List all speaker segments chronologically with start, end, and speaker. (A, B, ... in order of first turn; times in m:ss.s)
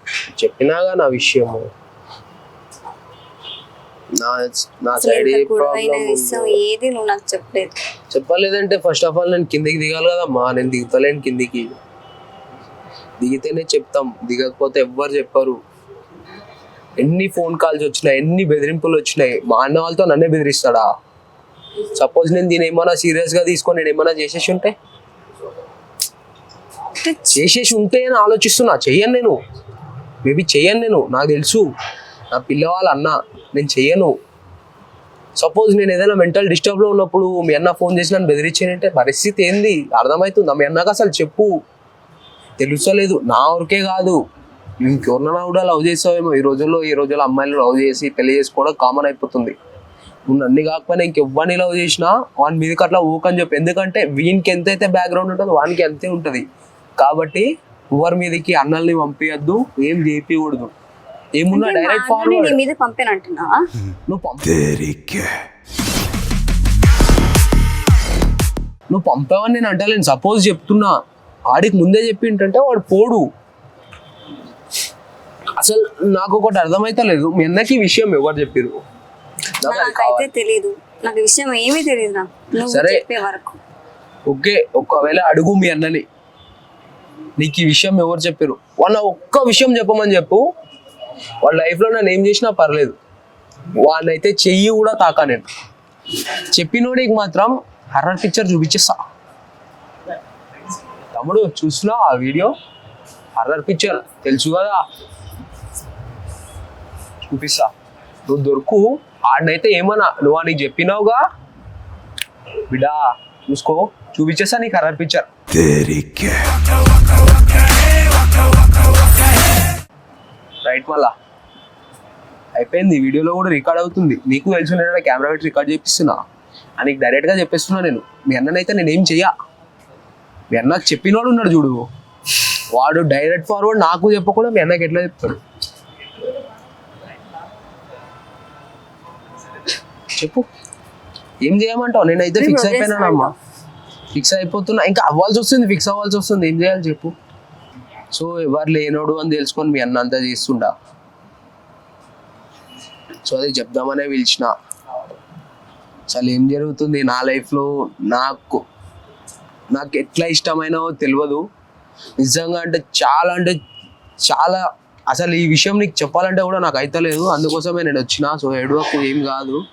0:00.4-0:01.6 A
0:04.2-0:06.6 A
0:05.0-0:07.7 B
0:08.1-0:11.7 A
0:13.2-0:15.6 A
0:17.0-0:20.9 A
0:21.9-0:24.7 A
0:27.0-0:27.4 B
0:27.3-0:29.4 A
0:30.2-0:31.7 A
0:32.3-0:34.1 A
0:35.4-0:41.5 A
0:42.6-0:44.2 A
0:44.8-0:49.5 A
0:50.3-0:56.4 A
0:57.0-1:00.7 A
1:01.4-1:02.6 A
1:01.5-1:03.6 B
1:04.1-1:05.2 A
1:08.9-1:11.0 A
1:11.5-1:13.2 A
1:15.6-1:18.8 A
1:19.6-1:20.3 A
1:19.6-1:23.6 B
1:22.7-1:23.0 A
1:24.3-1:26.0 A
1:27.4-1:30.4 A
1:31.4-1:32.9 A
1:33.8-1:35.4 A
1:36.5-1:39.0 A
1:41.1-1:42.5 A
1:43.4-1:44.8 A
1:47.3-1:47.7 A
1:48.3-1:51.2 A
1:52.7-1:55.3 A
2:00.6-2:01.1 A
2:02.6-2:06.2 A
2:06.8-2:09.3 A
2:10.5-2:11.8 A
2:12.8-2:15.4 A
2:20.2-2:20.4 A
2:21.4-2:23.3 A
2:22.4-2:23.3 B
2:24.1-2:27.1 A
2:28.1-2:30.7 A
2:33.2-2:34.5 A
2:36.1-2:38.6 A
2:39.7-2:41.4 A
2:42.2-2:43.6 A
2:44.2-2:49.6 A